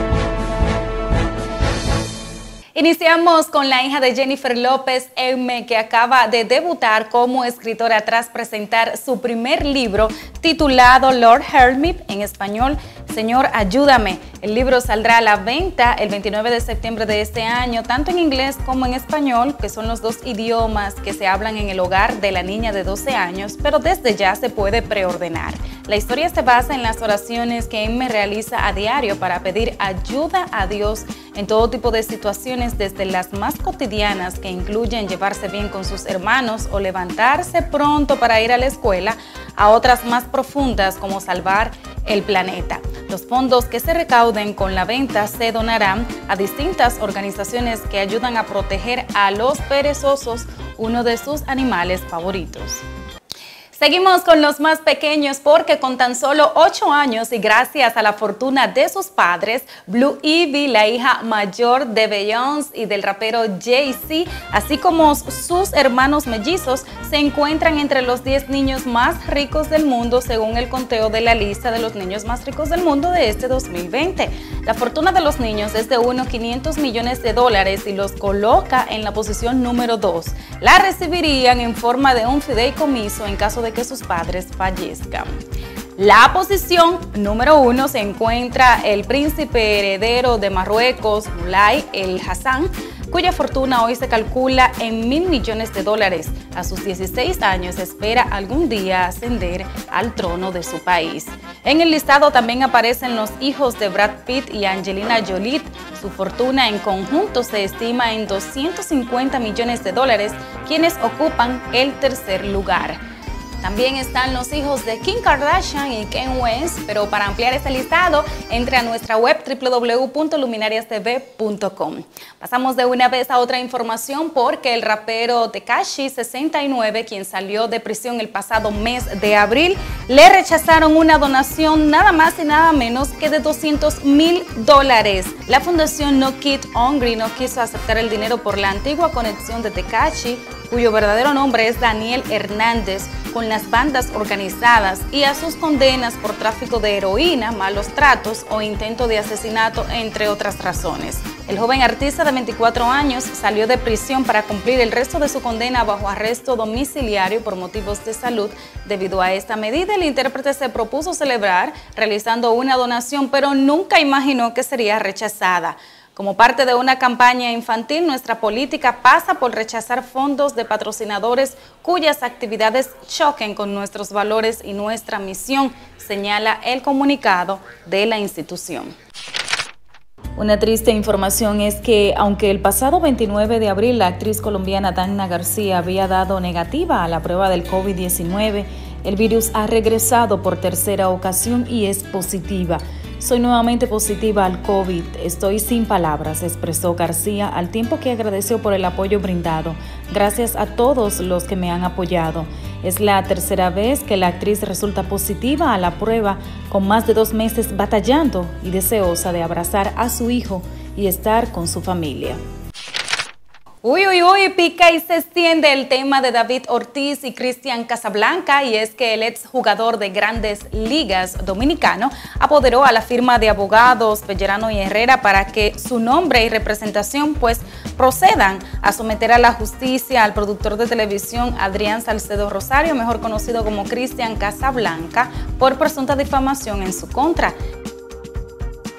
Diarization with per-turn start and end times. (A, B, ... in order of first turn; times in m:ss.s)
0:02.8-0:52.8 A
0:53.8-1:25.3 A
1:26.0-1:53.0 A
1:53.6-2:58.9 A
3:00.4-3:32.4 A
3:33.8-3:57.6 A